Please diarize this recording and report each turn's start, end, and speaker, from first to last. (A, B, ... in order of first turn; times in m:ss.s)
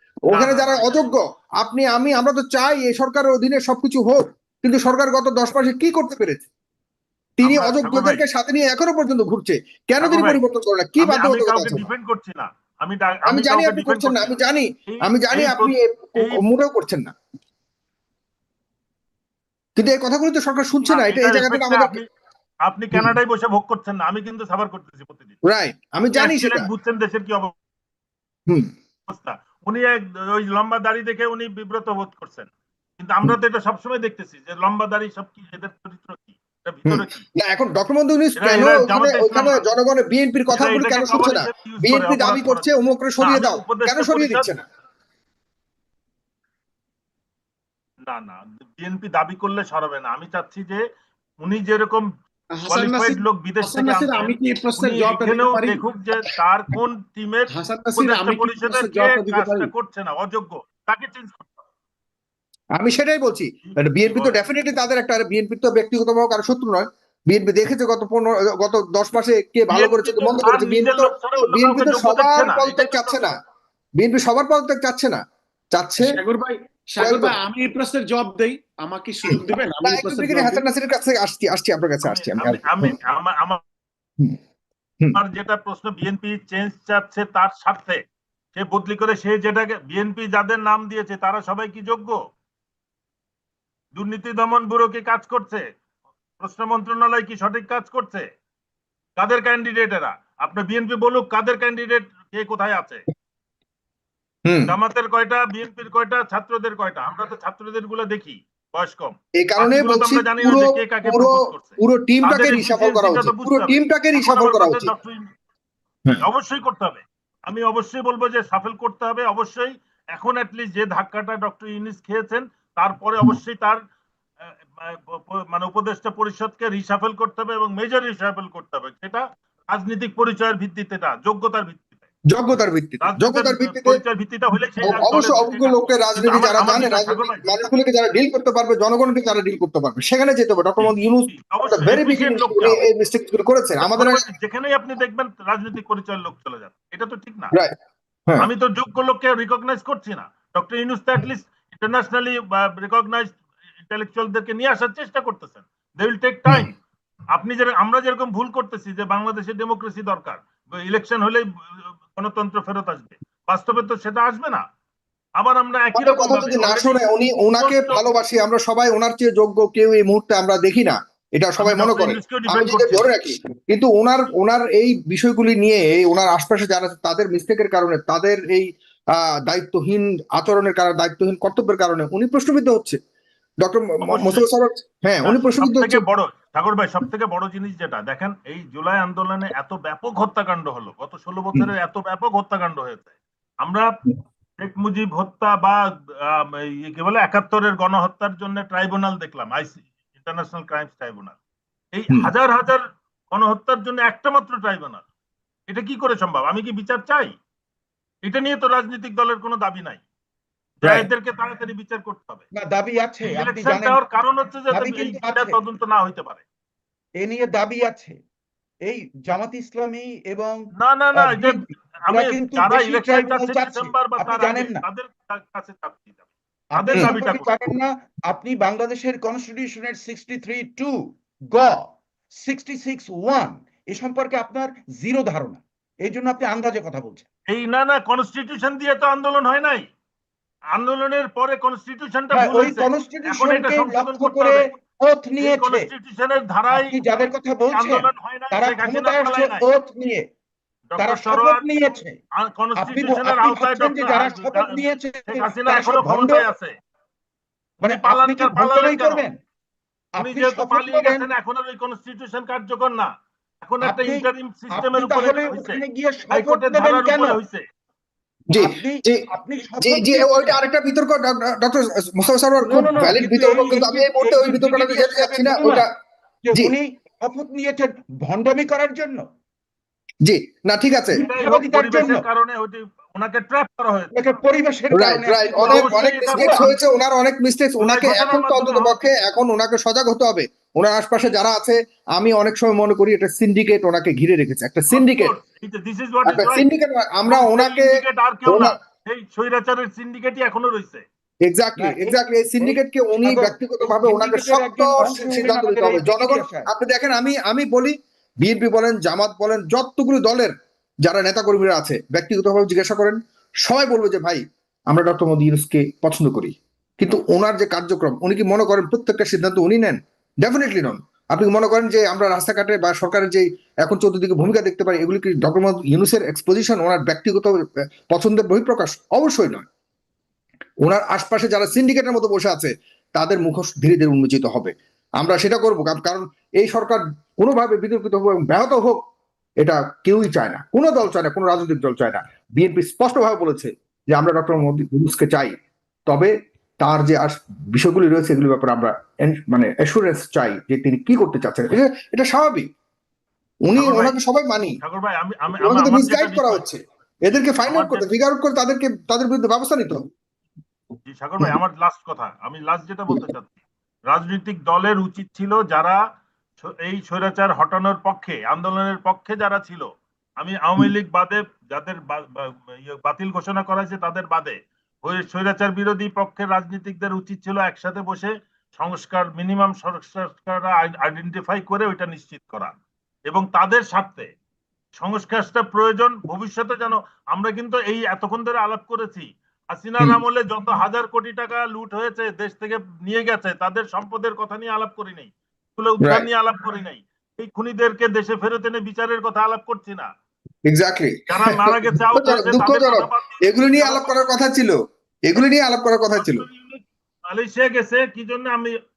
0:00.3-0:06.5 A
0:00.3-0:01.1 B
0:07.4-0:11.8 A
0:07.4-0:08.2 B
0:10.0-0:10.4 B
0:11.0-0:14.4 B
0:13.2-0:17.1 A
0:14.9-0:16.4 B
0:19.8-0:22.0 A
0:20.8-0:22.0 B
0:22.6-0:25.4 B
0:25.4-0:26.7 A
0:26.1-0:27.5 B
0:28.5-0:28.7 A
0:29.1-0:37.2 B
0:36.9-0:44.6 A
0:38.4-0:39.6 B
0:40.5-0:42.7 B
0:43.2-0:44.5 B
0:48.1-0:50.8 B
0:51.4-0:52.1 B
0:52.6-0:55.8 C
0:52.7-1:01.5 B
0:57.5-0:59.7 C
1:02.8-1:13.3 A
1:03.6-1:04.4 B
1:09.7-1:13.3 B
1:14.0-1:15.2 A
1:15.7-1:16.2 A
1:16.0-1:20.6 C
1:17.0-1:17.4 A
1:19.2-1:23.0 A
1:22.0-1:23.6 B
1:25.1-1:28.0 B
1:28.5-1:32.2 B
1:33.9-1:35.6 B
1:36.4-1:38.3 B
1:39.2-1:43.0 B
1:44.4-1:44.7 A
1:44.7-1:55.3 B
1:49.4-1:54.9 A
1:56.2-2:03.8 B
2:04.7-2:12.1 B
2:12.3-2:14.0 A
2:13.0-2:17.6 B
2:14.8-2:24.2 A
2:20.8-2:22.8 B
2:23.8-2:27.5 B
2:28.4-2:36.8 B
2:37.3-2:44.6 B
2:45.4-2:47.0 B
2:45.9-3:03.0 A
2:47.6-2:48.0 B
2:51.6-2:53.1 B
3:03.6-3:06.0 A
3:04.0-3:04.5 B
3:05.2-3:13.9 B
3:14.6-3:21.4 B
3:21.9-3:25.0 B
3:25.7-3:27.3 B
3:28.2-3:30.0 B
3:30.8-3:32.4 B
3:30.8-3:31.1 A
3:32.5-3:34.0 D
3:33.2-3:36.4 B
3:34.7-3:35.6 D
3:37.2-3:38.2 D
3:38.8-3:44.8 D
3:40.8-3:46.2 B
3:46.8-3:47.6 B
3:46.8-3:57.2 D
3:57.5-3:59.8 B
4:00.7-4:04.7 B
4:02.3-4:05.9 D
4:05.4-4:07.0 B
4:06.7-4:10.2 D
4:07.7-4:09.6 B
4:10.9-4:11.6 B
4:11.0-4:12.1 D
4:12.4-4:16.7 B
4:12.8-4:16.5 D
4:17.8-4:19.4 D
4:17.8-4:19.2 B
4:20.2-4:21.3 D
4:20.2-4:27.6 B
4:23.8-4:27.4 D
4:28.5-4:29.2 A
4:28.5-4:30.6 D
4:29.8-4:35.9 A
4:32.6-4:35.9 D
4:36.4-4:39.2 D
4:40.2-4:41.2 A
4:41.1-4:42.2 D
4:41.2-4:44.1 B
4:44.1-4:46.8 D
4:44.9-4:55.3 A
4:45.6-4:46.7 B
4:47.8-4:49.0 B
4:54.9-4:56.6 B
4:56.2-4:57.9 A
4:57.3-5:01.0 B
4:58.5-4:58.8 A
5:01.4-5:29.6 A
5:01.8-5:06.7 D
5:30.8-5:39.0 A
5:39.6-5:45.6 A
5:46.1-5:52.7 A
5:53.6-5:54.8 A
5:53.7-5:54.2 B
5:54.8-5:56.6 B
5:55.6-6:00.0 A
5:57.6-5:58.1 B
6:01.0-6:03.6 B
6:04.1-6:06.0 B
6:06.6-6:09.9 B
6:10.4-6:22.7 B
6:23.3-6:24.3 B
6:25.0-6:40.1 B
6:36.0-6:36.3 A
6:40.6-6:46.4 A
6:41.3-6:44.1 B
6:46.1-6:48.7 B